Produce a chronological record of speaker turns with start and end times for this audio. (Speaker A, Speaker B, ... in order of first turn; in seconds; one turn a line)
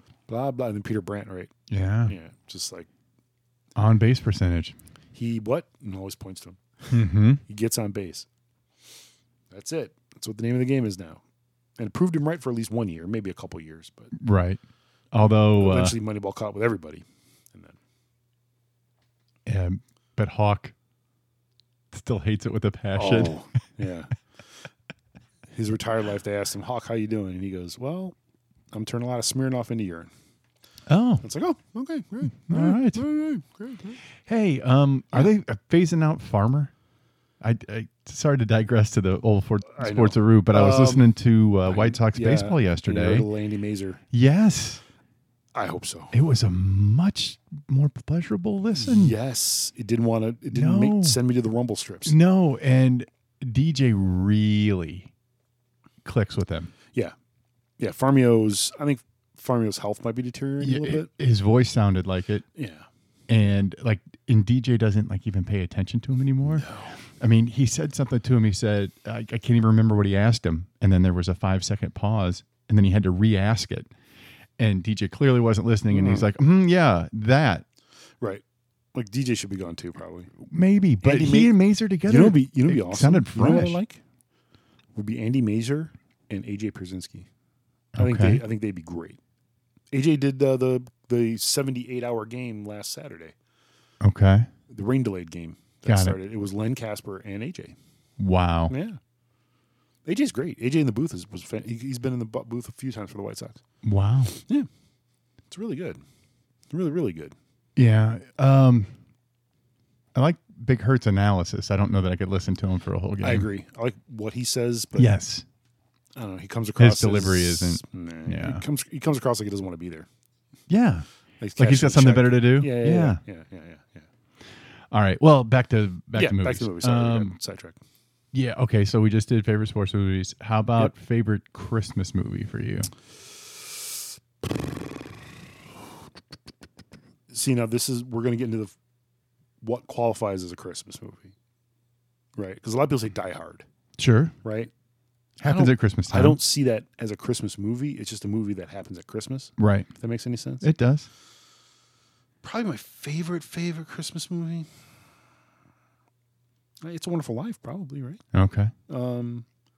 Speaker A: 0.3-1.5
Speaker B: 1.7-2.1
Speaker A: 2.0-2.9
Speaker B: 3.8-4.8
Speaker A: 5.1-8.3
Speaker B: 6.9-7.4
Speaker A: 9.5-11.2
Speaker A: 11.8-14.1
Speaker B: 14.2-14.6
Speaker B: 15.1-16.0
Speaker A: 15.5-17.8
Speaker B: 19.4-20.7
Speaker B: 21.9-23.4
Speaker A: 22.9-24.1
Speaker A: 25.5-28.1
Speaker A: 28.7-30.1
Speaker B: 30.9-31.2
Speaker A: 31.2-34.0
Speaker B: 32.4-33.0
Speaker B: 34.3-36.7
Speaker B: 37.4-43.3
Speaker A: 39.7-41.1
Speaker A: 41.6-44.0
Speaker B: 44.1-44.8
Speaker A: 45.5-46.1
Speaker B: 46.1-49.1
Speaker A: 48.8-52.1
Speaker B: 50.5-51.2
Speaker B: 52.0-55.1
Speaker B: 56.0-56.7
Speaker A: 57.8-61.1
Speaker B: 60.6-62.4
Speaker A: 62.5-62.9
Speaker B: 63.3-73.9
Speaker A: 66.5-67.0
Speaker B: 74.6-77.6
Speaker A: 75.9-76.3
Speaker A: 78.9-80.3
Speaker B: 80.4-83.8
Speaker A: 81.0-84.0
Speaker A: 84.9-87.3
Speaker B: 87.9-88.4
Speaker A: 88.0-89.2
Speaker A: 89.9-93.3
Speaker B: 94.0-94.5
Speaker A: 94.7-97.8
Speaker B: 95.8-96.2
Speaker B: 98.2-98.7
Speaker A: 98.7-99.0
Speaker A: 100.0-103.6
Speaker B: 103.8-104.3
Speaker A: 104.3-104.7
Speaker A: 105.5-106.0
Speaker A: 106.7-107.3
Speaker B: 107.8-108.9
Speaker B: 110.1-113.5
Speaker A: 113.2-115.1
Speaker B: 115.0-115.4
Speaker A: 116.2-120.1
Speaker B: 116.8-118.6
Speaker B: 120.7-123.2
Speaker A: 121.4-124.1
Speaker B: 124.9-127.3
Speaker A: 126.1-127.8
Speaker B: 128.3-132.9
Speaker A: 137.3-138.7
Speaker A: 139.6-141.3
Speaker A: 142.4-143.7
Speaker B: 144.0-144.3
Speaker A: 144.4-144.7
Speaker B: 145.4-146.4
Speaker A: 145.4-150.7
Speaker B: 149.6-149.9
Speaker B: 150.6-151.1
Speaker A: 152.4-154.7
Speaker A: 156.8-158.2
Speaker B: 158.3-158.7
Speaker A: 158.9-159.4